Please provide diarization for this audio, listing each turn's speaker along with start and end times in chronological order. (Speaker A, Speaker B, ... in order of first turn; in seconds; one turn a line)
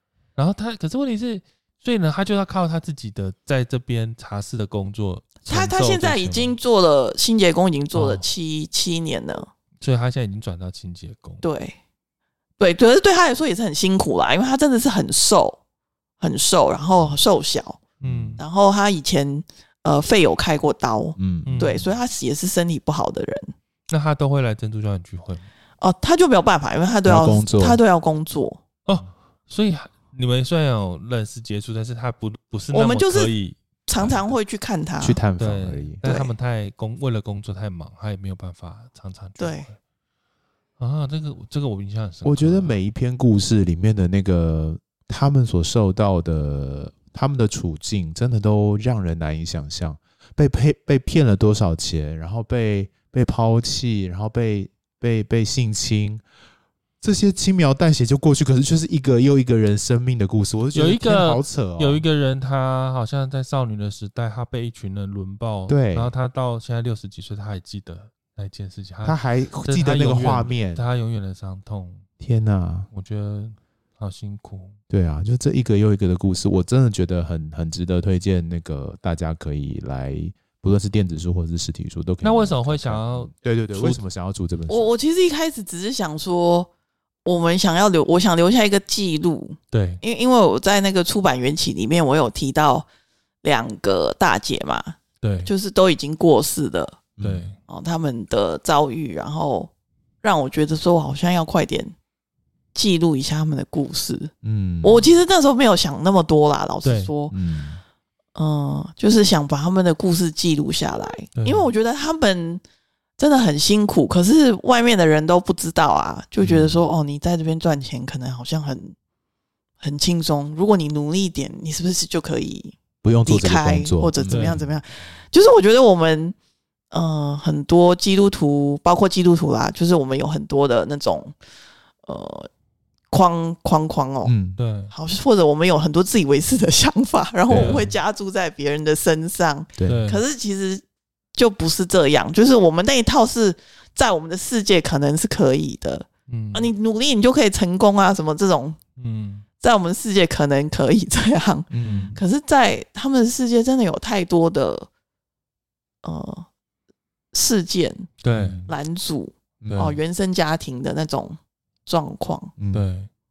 Speaker A: 0.3-6.5
Speaker B: 5.5-9.5
Speaker A: 7.9-8.3
Speaker A: 9.8-11.4
Speaker B: 11.4-11.8
Speaker B: 12.6-15.6
Speaker B: 16.2-17.8
Speaker A: 18.0-18.4
Speaker C: 18.0-18.4
Speaker B: 18.4-23.5
Speaker C: 21.2-21.8
Speaker A: 21.4-21.9
Speaker A: 23.9-25.5
Speaker B: 25.8-28.6
Speaker C: 27.1-27.8
Speaker A: 28.9-34.2
Speaker B: 32.7-33.3
Speaker B: 33.9-35.2
Speaker C: 35.0-36.0
Speaker A: 35.4-39.8
Speaker B: 36.0-36.3
Speaker B: 39.4-39.6
Speaker A: 40.8-42.7
Speaker C: 42.2-56.2
Speaker C: 57.0-62.0
Speaker A: 60.7-72.0
Speaker C: 65.7-66.1
Speaker C: 69.0-70.8
Speaker C: 72.2-72.9
Speaker A: 72.9-74.8
Speaker C: 74.9-84.9
Speaker A: 82.2-84.0
Speaker B: 84.7-86.7
Speaker B: 87.2-92.8
Speaker A: 89.7-90.0
Speaker B: 93.4-97.0
Speaker A: 95.2-95.5
Speaker C: 97.2-97.5
Speaker A: 97.2-97.5
Speaker B: 97.7-99.7
Speaker B: 100.2-101.9
Speaker B: 102.7-107.3
Speaker C: 104.4-105.0
Speaker A: 106.8-107.1
Speaker C: 107.3-107.8
Speaker B: 108.3-112.6
Speaker A: 111.3-111.7
Speaker B: 113.2-119.0
Speaker C: 116.4-116.8
Speaker B: 119.8-126.3
Speaker C: 123.0-124.7
Speaker A: 124.3-124.6
Speaker B: 126.9-131.3
Speaker B: 132.1-132.5
Speaker B: 133.1-134.3
Speaker C: 134.2-134.6
Speaker A: 134.6-134.9
Speaker B: 134.9-140.8
Speaker C: 137.5-137.9
Speaker A: 137.5-137.9
Speaker C: 139.8-140.0
Speaker A: 139.8-140.2
Speaker B: 141.3-148.8
Speaker A: 146.3-146.7
Speaker A: 149.0-149.4
Speaker B: 149.6-154.9
Speaker C: 151.7-152.2
Speaker A: 151.8-152.2
Speaker B: 156.0-156.5
Speaker B: 157.3-158.1
Speaker A: 158.2-158.6
Speaker C: 158.3-158.7
Speaker B: 158.7-162.5
Speaker C: 159.6-159.9
Speaker A: 159.7-160.0
Speaker C: 162.6-162.8
Speaker A: 162.7-163.1